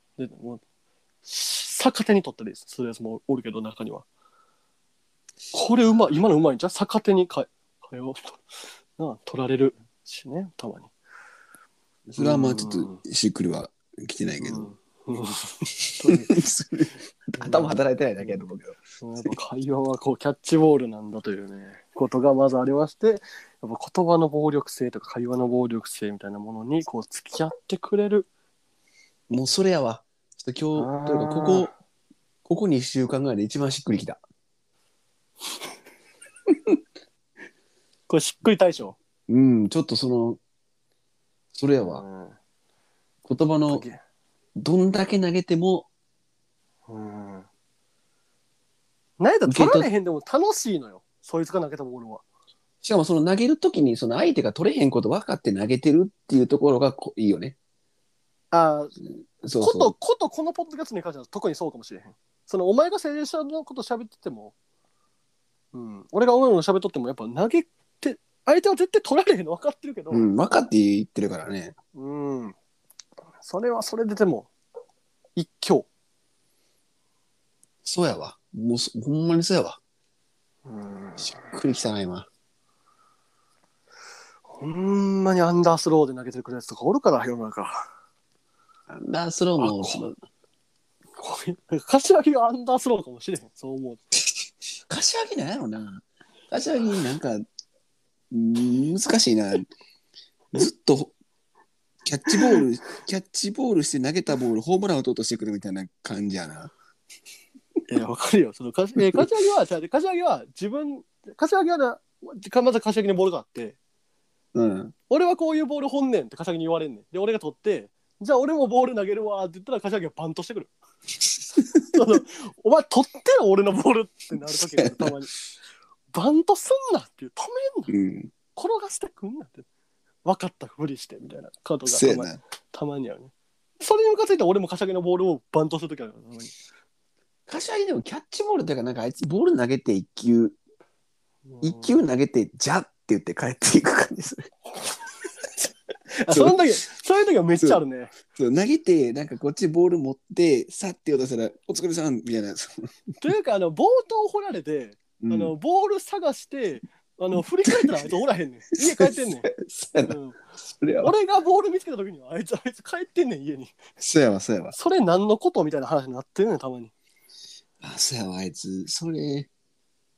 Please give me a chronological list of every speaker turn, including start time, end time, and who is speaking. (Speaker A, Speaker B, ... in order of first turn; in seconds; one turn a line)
Speaker A: 0.2-0.6
Speaker A: 1.2-4.0
Speaker A: 5.5-10.9
Speaker B: 12.1-14.7
Speaker A: 12.2-13.0
Speaker A: 14.4-16.4
Speaker B: 16.1-19.3
Speaker A: 17.4-18.5
Speaker A: 19.0-28.3
Speaker B: 29.3-31.7
Speaker A: 30.8-31.7
Speaker B: 32.5-34.2
Speaker A: 38.1-39.0
Speaker B: 39.3-40.4
Speaker B: 41.5-42.0
Speaker A: 41.8-42.4
Speaker B: 43.3-43.9
Speaker A: 43.7-44.0
Speaker B: 44.6-45.9
Speaker A: 46.9-47.5
Speaker A: 49.2-52.2
Speaker B: 49.5-49.9
Speaker B: 52.8-57.6
Speaker A: 58.5-59.0
Speaker B: 59.4-59.9
Speaker A: 59.6-64.5
Speaker A: 65.7-70.3
Speaker B: 70.1-71.8
Speaker A: 72.0-72.5
Speaker A: 73.4-74.5
Speaker A: 75.4-75.9
Speaker B: 77.8-79.8
Speaker A: 80.7-81.5
Speaker B: 81.2-82.3
Speaker A: 84.5-87.9
Speaker B: 88.9-90.2
Speaker A: 89.6-90.1
Speaker A: 91.2-94.0
Speaker B: 94.9-97.4
Speaker B: 98.3-99.7
Speaker B: 100.5-101.1
Speaker B: 102.0-106.7
Speaker A: 102.3-102.6
Speaker A: 107.9-113.8
Speaker B: 114.5-114.9
Speaker A: 115.1-120.7
Speaker B: 121.6-121.9
Speaker A: 121.9-125.3
Speaker B: 124.8-125.1
Speaker A: 126.1-127.9
Speaker B: 127.9-128.3
Speaker A: 128.6-129.7
Speaker A: 130.2-136.6
Speaker B: 131.9-132.4
Speaker B: 137.5-140.6
Speaker A: 141.5-141.9
Speaker B: 141.6-144.5
Speaker A: 145.6-148.2
Speaker B: 146.3-146.6
Speaker B: 148.3-152.9
Speaker A: 153.2-159.5
Speaker B: 155.2-155.5
Speaker B: 157.7-158.1
Speaker B: 159.0-160.2
Speaker A: 160.1-160.4
Speaker B: 160.7-161.1
Speaker A: 161.0-163.8
Speaker B: 164.0-164.8
Speaker A: 164.7-166.9
Speaker B: 167.8-169.5